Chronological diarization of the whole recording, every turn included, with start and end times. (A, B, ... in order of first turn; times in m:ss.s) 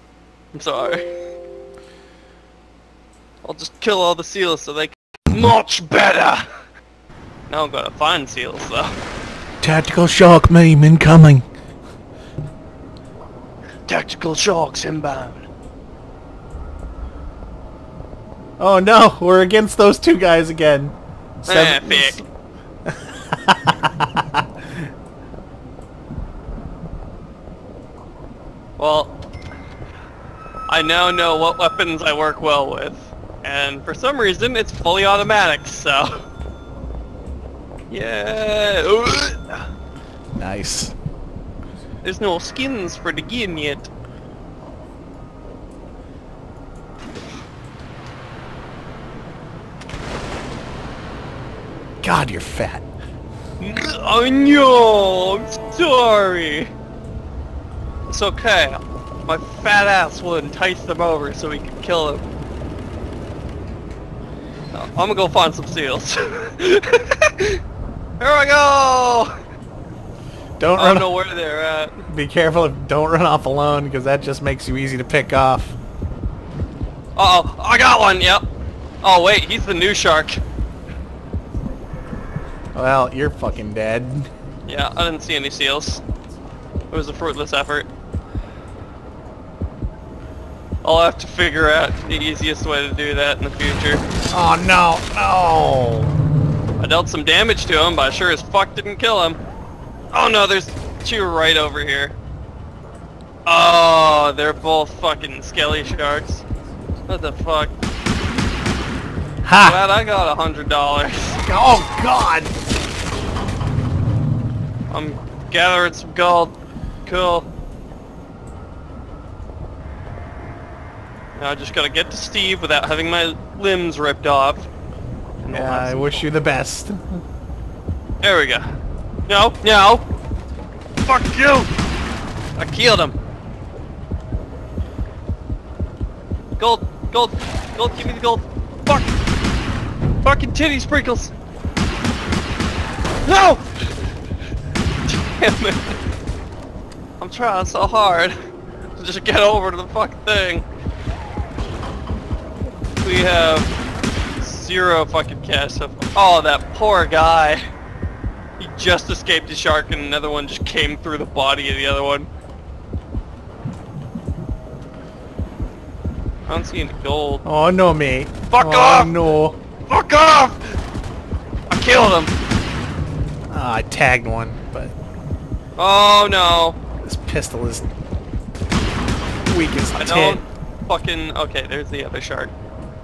0:00.5-0:01.1 A
0:03.4-0:06.5 A
0:07.5-0:09.0 A
0:09.6-0:11.4 B
0:13.9-0:15.5 A
0:18.6-0:22.2 B
0:21.4-0:22.2 A
0:22.9-0:24.8 B
0:28.8-0:29.1 A
0:30.7-0:36.2 A
0:37.9-0:39.6 A
0:40.4-0:40.9 B
0:42.0-0:43.9 A
0:52.0-0:52.8 B
0:53.6-0:56.7 A
0:58.1-1:02.2 A
1:04.7-1:07.6 A
1:08.2-1:09.3 A
1:10.6-1:11.1 B
1:10.8-1:12.0 A
1:12.1-1:15.8 B
1:17.2-1:18.4 A
1:19.0-1:20.4 A
1:22.7-1:24.3 B
1:24.7-1:26.0 A
1:26.9-1:27.9 A
1:30.8-1:34.0 A
1:34.3-1:36.1 B
1:36.8-1:39.4 A
1:40.1-1:42.2 A
1:43.4-1:46.4 A
1:47.1-1:47.7 A
1:49.4-1:49.8 B
1:49.6-1:51.4 A
1:51.5-1:52.5 B
1:54.9-1:56.5 A
1:57.0-1:57.5 A
2:01.4-2:04.7 A
2:05.4-2:06.3 A
2:05.5-2:07.2 B
2:08.2-2:08.7 A
2:09.3-2:10.0 A
2:11.0-2:11.7 A
2:12.6-2:13.2 A
2:16.6-2:19.1 A
2:20.2-2:21.3 A
2:23.2-2:23.9 A
2:25.1-2:26.0 A
2:27.2-2:28.3 A
2:28.9-2:30.6 A
2:33.0-2:33.7 A
2:34.4-2:37.6 A
2:38.6-2:42.3 A
2:46.5-2:47.4 A
2:47.4-2:49.6 B
2:48.5-2:49.3 A
2:49.9-2:50.8 A
2:51.7-2:52.3 A
2:53.5-2:54.9 B
2:55.8-2:56.8 A
2:57.0-2:57.9 B
2:59.5-3:00.4 B
2:59.9-3:02.5 A